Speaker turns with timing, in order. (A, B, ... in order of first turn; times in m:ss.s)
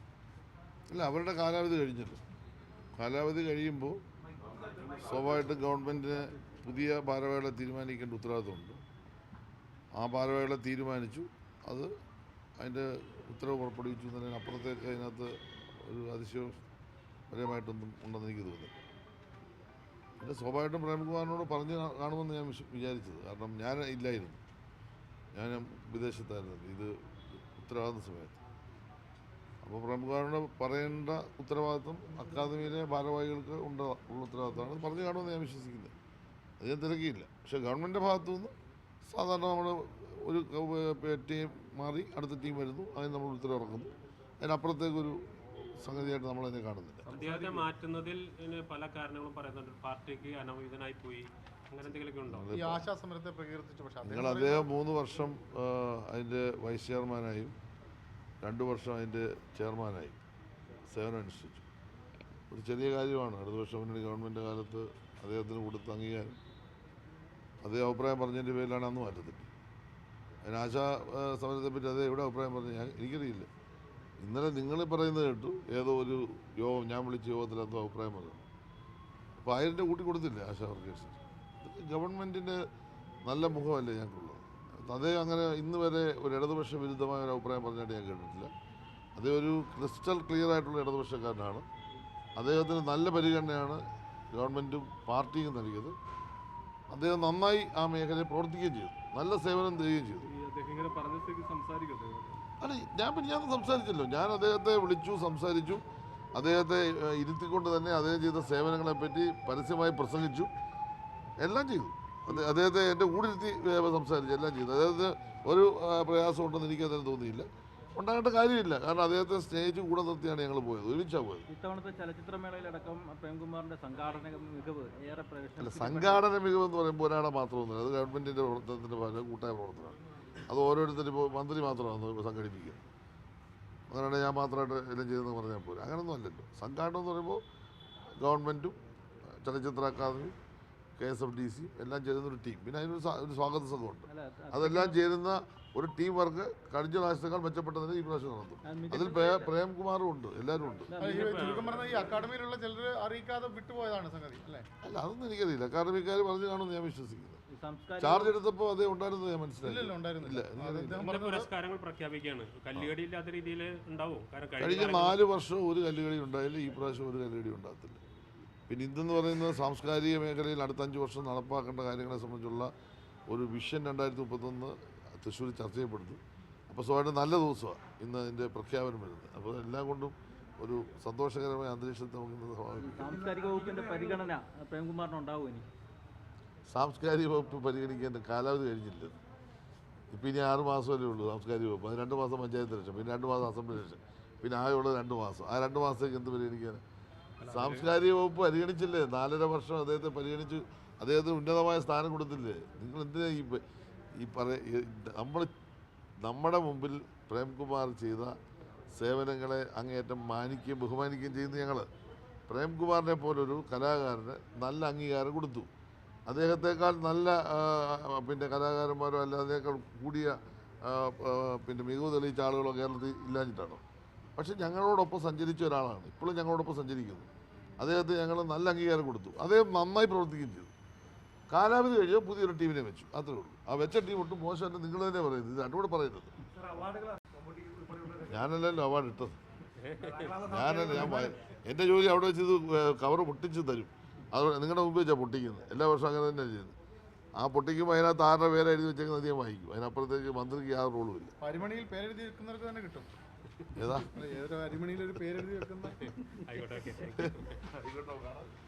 0:00.9-0:02.2 A
0:03.0-0:04.0 A
0:05.0-0:08.8 A
0:10.0-0:11.9 A
0:12.6-0:16.6 A
0:17.3-0:18.8 A
0:20.2-0:24.4 A
0:25.4-0:28.4 A
0:29.6-0:35.9 A
0:36.6-0:38.5 A
0:39.1-0:45.2 A
0:45.8-0:47.1 A
0:47.1-0:52.5 B
0:47.2-0:47.7 C
0:52.2-0:52.9 A
0:52.5-0:54.7 D
0:54.0-0:57.6 A
0:58.4-1:00.2 A
1:00.9-1:01.6 A
1:02.5-1:06.4 A
1:07.6-1:09.5 A
1:10.4-1:13.5 A
1:14.2-1:18.4 A
1:19.4-1:22.6 A
1:23.2-1:28.5 A
1:29.2-1:31.7 A
1:32.4-1:36.0 A
1:36.9-1:40.3 A
1:40.3-1:42.4 C
1:42.6-1:45.8 A
1:46.4-1:50.5 A
1:51.4-2:01.5 A
2:01.5-2:06.2 E
2:05.6-2:10.0 A
2:10.5-2:12.8 A
2:13.9-2:17.4 A
2:18.2-2:20.3 A
2:21.0-2:30.9 A
2:24.1-2:25.0 E
2:28.6-2:29.5 E
2:30.9-2:32.0 E
2:31.0-2:34.7 D
2:31.0-2:31.7 B
2:34.8-2:37.4 A
2:37.5-2:38.4 E
2:38.0-2:41.1 A
2:39.6-2:41.5 D
2:41.0-2:45.2 B
2:44.6-2:48.0 A
2:48.7-2:52.7 A
2:53.3-3:03.1 A
3:02.8-3:05.7 E
3:06.7-3:09.2 A
3:10.1-3:16.8 A
3:17.4-3:17.8 C
3:17.4-3:23.6 A
3:24.2-3:25.5 A
3:26.2-3:28.4 A
3:28.9-3:31.9 A
3:32.5-3:35.7 A
3:36.3-3:43.8 A
3:44.4-3:50.7 A
3:51.5-3:56.4 A
3:58.2-3:59.4 A
3:59.8-4:00.5 B
4:00.4-4:06.8 A
4:07.4-4:11.3 A
4:11.4-4:13.1 D
4:13.8-4:14.1 A
4:14.0-4:16.2 D
4:16.1-4:17.6 B
4:17.2-4:18.5 A